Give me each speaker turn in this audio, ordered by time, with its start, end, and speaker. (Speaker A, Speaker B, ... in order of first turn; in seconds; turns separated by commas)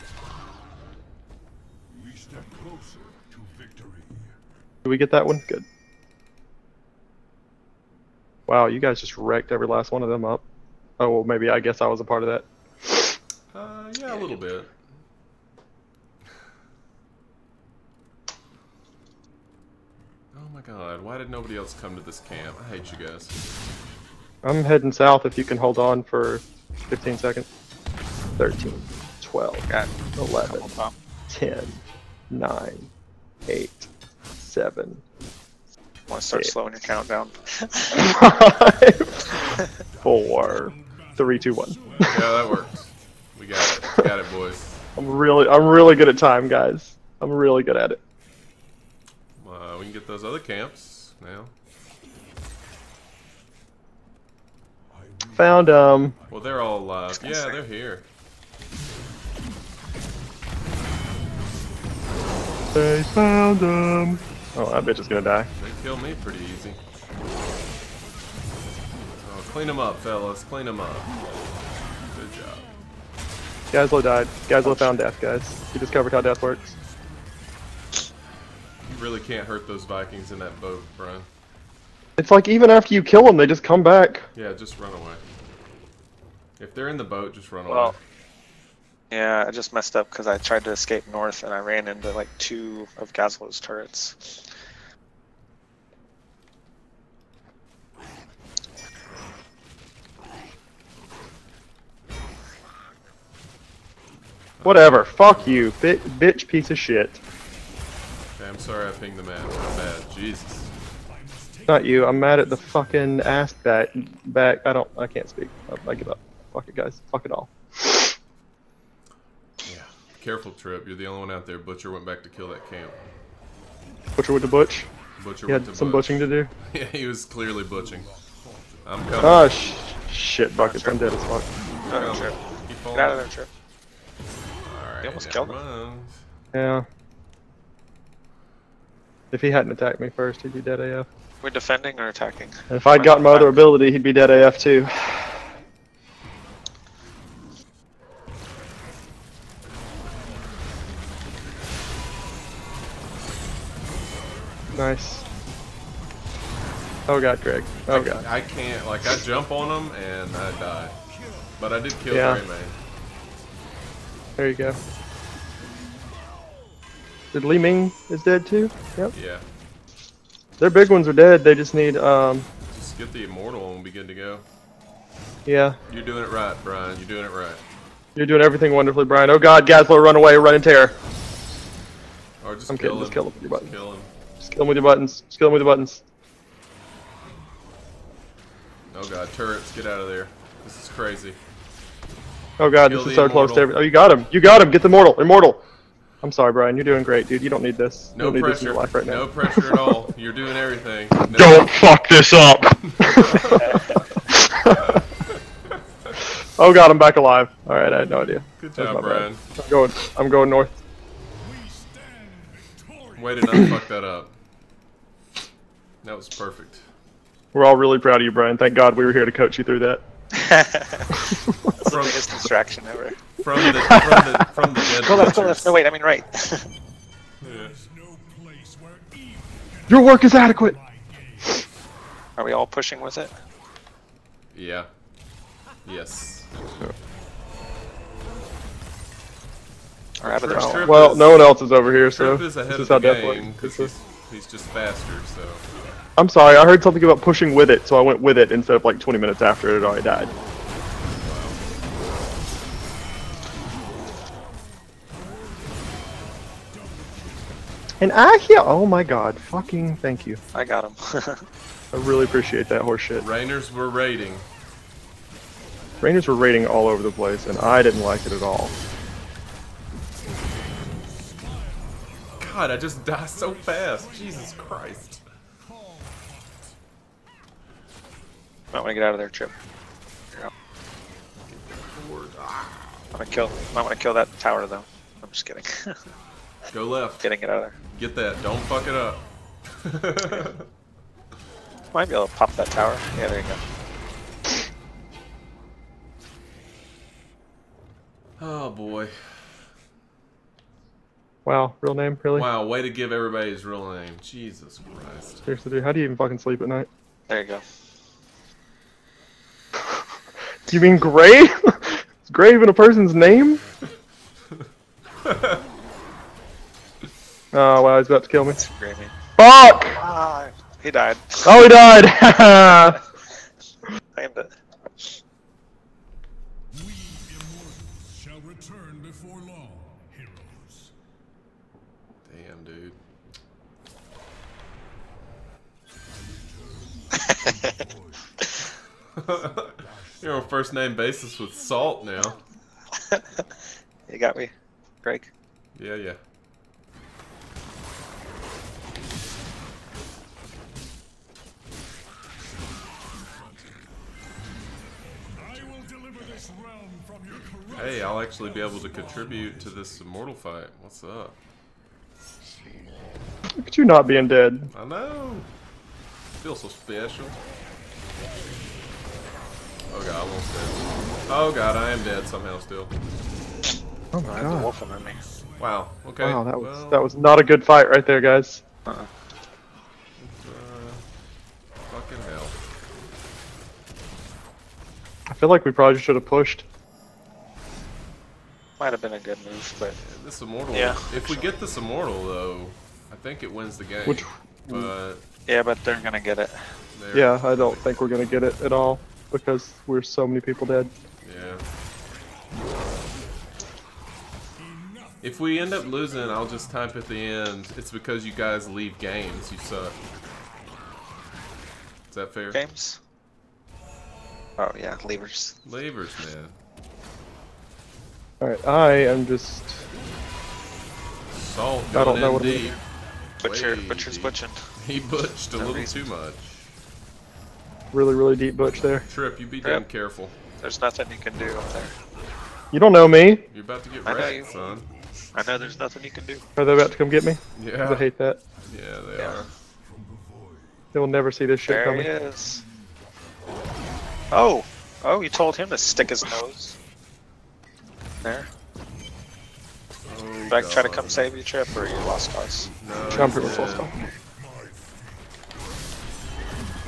Speaker A: 4.8-5.7, Speaker A: 8.5-10.4, Speaker A: 11.0-13.0, Speaker B: 13.5-14.7, Speaker B: 20.3-23.4, Speaker A: 24.4-27.5, Speaker A: 28.4-30.7, Speaker C: 29.7-30.9, Speaker A: 31.3-32.9, Speaker A: 33.5-33.9, Speaker A: 34.4-35.0, Speaker C: 36.1-38.0, Speaker A: 37.9-42.0, Speaker D: 40.5-42.4, Speaker B: 42.0-44.8, Speaker A: 45.0-48.0, Speaker B: 49.4-51.5, Speaker A: 55.3-56.2, Speaker B: 56.3-58.0, Speaker C: 57.1-57.6, Speaker A: 62.7-65.5, Speaker B: 65.5-66.8, Speaker B: 69.2-71.1, Speaker B: 72.1-72.6, Speaker A: 73.7-76.7, Speaker C: 74.6-74.9, Speaker D: 76.0-77.3, Speaker B: 78.8-81.3, Speaker A: 82.2-84.3, Speaker B: 84.3-85.2, Speaker B: 86.6-88.0, Speaker C: 87.7-87.9, Speaker C: 89.1-94.5, Speaker B: 104.6-105.7, Speaker A: 104.6-107.2, Speaker B: 108.3-110.7, Speaker D: 111.0-112.8, Speaker A: 111.7-118.1, Speaker B: 119.6-123.1, Speaker A: 124.2-124.9, Speaker B: 125.2-128.2, Speaker A: 125.5-126.5, Speaker B: 128.8-129.6, Speaker A: 129.2-131.6, Speaker C: 130.6-131.2, Speaker B: 131.8-133.2, Speaker C: 131.9-132.4, Speaker C: 132.9-133.5, Speaker B: 134.6-136.2, Speaker C: 135.0-135.6, Speaker A: 136.5-136.8, Speaker A: 139.3-141.1, Speaker C: 141.4-143.7, Speaker A: 142.7-145.4, Speaker D: 154.7-155.2, Speaker A: 154.7-155.2, Speaker A: 157.1-158.2, Speaker B: 157.9-160.9, Speaker B: 161.6-162.8, Speaker A: 162.1-162.4, Speaker A: 164.4-164.8, Speaker A: 167.3-169.1, Speaker B: 169.1-169.4, Speaker A: 170.6-172.5, Speaker B: 172.7-174.4, Speaker A: 175.4-175.8, Speaker B: 175.9-177.6, Speaker A: 178.2-180.9, Speaker B: 182.4-184.1, Speaker A: 182.7-183.8, Speaker A: 184.4-186.0, Speaker B: 188.9-191.4, Speaker A: 192.6-195.6, Speaker B: 192.8-193.8, Speaker A: 196.2-199.9, Speaker B: 198.1-201.8, Speaker A: 201.2-203.8, Speaker B: 202.9-203.9, Speaker A: 204.3-205.0, Speaker B: 204.7-205.8, Speaker A: 206.6-210.8, Speaker B: 208.2-209.4, Speaker D: 211.4-213.8, Speaker B: 213.2-214.3, Speaker B: 216.0-216.9, Speaker A: 217.5-220.0, Speaker C: 220.3-221.2, Speaker C: 221.8-223.2, Speaker B: 221.8-222.3, Speaker B: 223.4-225.8, Speaker A: 223.5-224.5, Speaker C: 224.9-226.7, Speaker B: 227.4-227.8, Speaker D: 227.4-231.7, Speaker A: 229.9-230.8, Speaker C: 232.4-233.3, Speaker B: 234.5-234.9, Speaker B: 235.8-236.6, Speaker C: 240.2-241.0, Speaker B: 240.2-245.6, Speaker A: 240.5-243.9, Speaker A: 246.2-250.3, Speaker B: 251.2-251.6, Speaker D: 255.2-257.4, Speaker A: 258.0-260.4, Speaker C: 260.5-261.4, Speaker A: 261.9-263.2, Speaker B: 263.2-264.4, Speaker A: 266.0-268.7, Speaker D: 270.9-273.2, Speaker B: 272.4-275.2, Speaker D: 273.7-274.7, Speaker D: 275.6-276.7, Speaker C: 278.7-279.5, Speaker B: 281.5-283.1, Speaker C: 283.1-286.0, Speaker B: 286.7-287.3, Speaker C: 287.2-287.8, Speaker B: 287.9-289.2, Speaker B: 289.7-290.7, Speaker C: 291.9-293.6, Speaker B: 298.4-299.6, Speaker A: 301.4-302.5, Speaker B: 302.3-305.4, Speaker A: 305.4-306.9, Speaker C: 307.3-307.6, Speaker A: 310.7-313.6, Speaker B: 315.2-315.6, Speaker A: 317.5-318.6, Speaker C: 318.5-319.1, Speaker A: 319.4-320.0, Speaker C: 319.9-321.6, Speaker A: 321.4-323.0, Speaker C: 324.1-324.5, Speaker D: 326.7-330.9, Speaker B: 332.2-333.0, Speaker C: 337.2-337.6, Speaker B: 339.1-342.4, Speaker C: 344.1-344.5, Speaker C: 345.0-345.3, Speaker B: 345.7-346.2, Speaker D: 352.8-353.8, Speaker D: 355.2-359.8, Speaker B: 357.7-361.4, Speaker A: 363.5-364.7, Speaker B: 364.7-365.5, Speaker B: 366.4-367.4, Speaker B: 369.9-372.9, Speaker A: 374.1-374.7, Speaker C: 374.2-375.2, Speaker B: 375.6-377.1, Speaker A: 376.2-378.6, Speaker B: 380.2-381.0, Speaker B: 381.9-382.6, Speaker A: 385.3-386.6, Speaker C: 388.8-390.0, Speaker B: 390.0-395.2, Speaker C: 390.7-391.4, Speaker A: 394.1-394.9, Speaker C: 395.5-396.7, Speaker B: 396.9-398.0, Speaker A: 397.1-400.9, Speaker B: 401.2-401.6, Speaker D: 404.6-406.9, Speaker B: 405.2-409.9, Speaker B: 412.1-412.6, Speaker C: 412.5-413.0, Speaker C: 414.6-415.5, Speaker B: 415.6-416.6, Speaker A: 418.4-419.9, Speaker B: 421.3-422.8, Speaker A: 421.9-422.8, Speaker B: 423.4-426.7, Speaker C: 423.4-424.6, Speaker C: 425.6-425.9, Speaker A: 427.9-429.1, Speaker B: 429.1-430.3, Speaker C: 430.6-431.9, Speaker A: 432.7-433.4, Speaker B: 433.5-434.9, Speaker C: 434.0-434.5, Speaker C: 435.3-436.4, Speaker A: 436.6-438.4, Speaker B: 437.5-438.1, Speaker B: 438.6-439.5, Speaker A: 440.9-442.1, Speaker C: 441.7-442.6, Speaker C: 444.3-446.8, Speaker C: 448.2-448.5, Speaker B: 450.1-451.4, Speaker C: 450.5-452.7, Speaker B: 452.8-453.9, Speaker A: 453.1-453.9